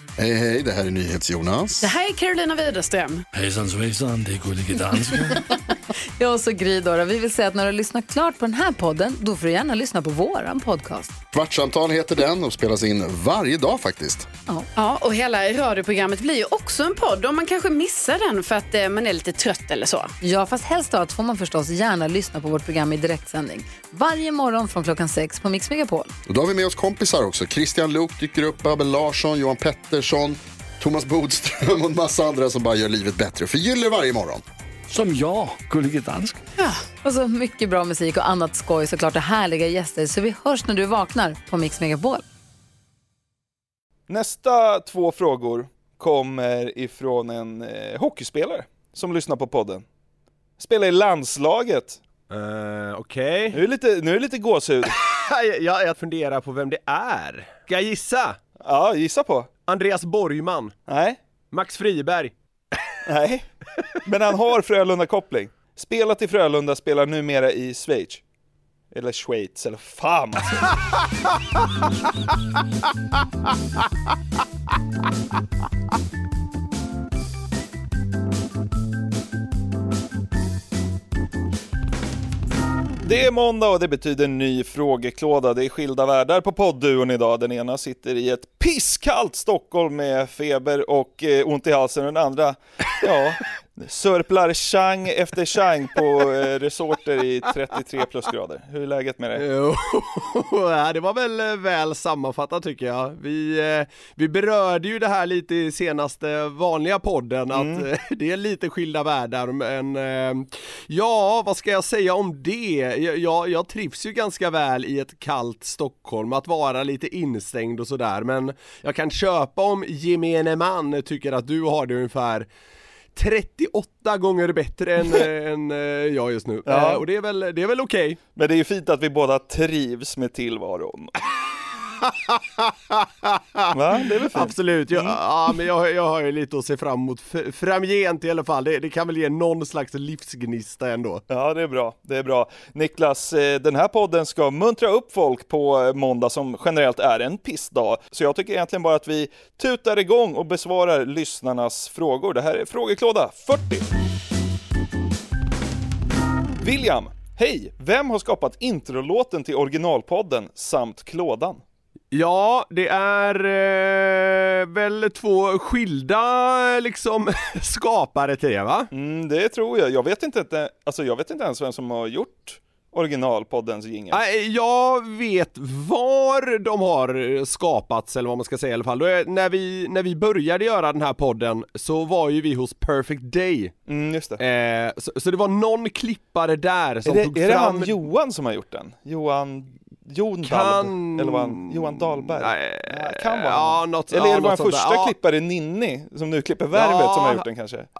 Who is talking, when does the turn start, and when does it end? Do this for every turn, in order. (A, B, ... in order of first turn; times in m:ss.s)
0:00.2-0:01.9 A
0:01.8-0:03.2 B
0:03.3-0:05.3 C
0:05.2-0:11.1 D
0:11.3-0:14.3 A
0:14.8-0:20.1 B
0:20.2-0:26.1 D
0:26.3-0:34.4 A
0:34.9-0:36.4 C
0:36.6-0:42.2 D
0:44.1-0:49.8 E
0:50.6-0:52.0 E
0:52.3-0:53.6 F
0:53.5-0:55.0 E
0:54.9-0:58.4 F
0:58.6-0:59.5 E
0:59.7-1:00.8 F
1:00.9-1:01.2 E
1:01.5-1:02.3 F
1:03.0-1:03.5 E
1:04.0-1:08.2 E
1:08.9-1:10.7 E
1:23.0-1:39.4 E
1:39.4-2:02.5 F
1:47.5-1:47.9 E
2:03.2-2:08.2 F
2:06.7-2:07.0 E
2:08.4-2:11.1 E
2:12.0-2:13.8 F
2:13.7-2:15.2 E
2:14.3-2:21.2 F
2:21.3-2:33.9 E
2:36.6-2:41.6 E
2:42.1-2:48.9 F
2:48.9-2:54.2 E
2:54.1-3:03.7 F
3:03.9-3:04.4 E
3:04.4-3:08.0 F
3:07.0-3:17.9 E
3:10.4-3:15.1 F
3:16.7-3:17.4 F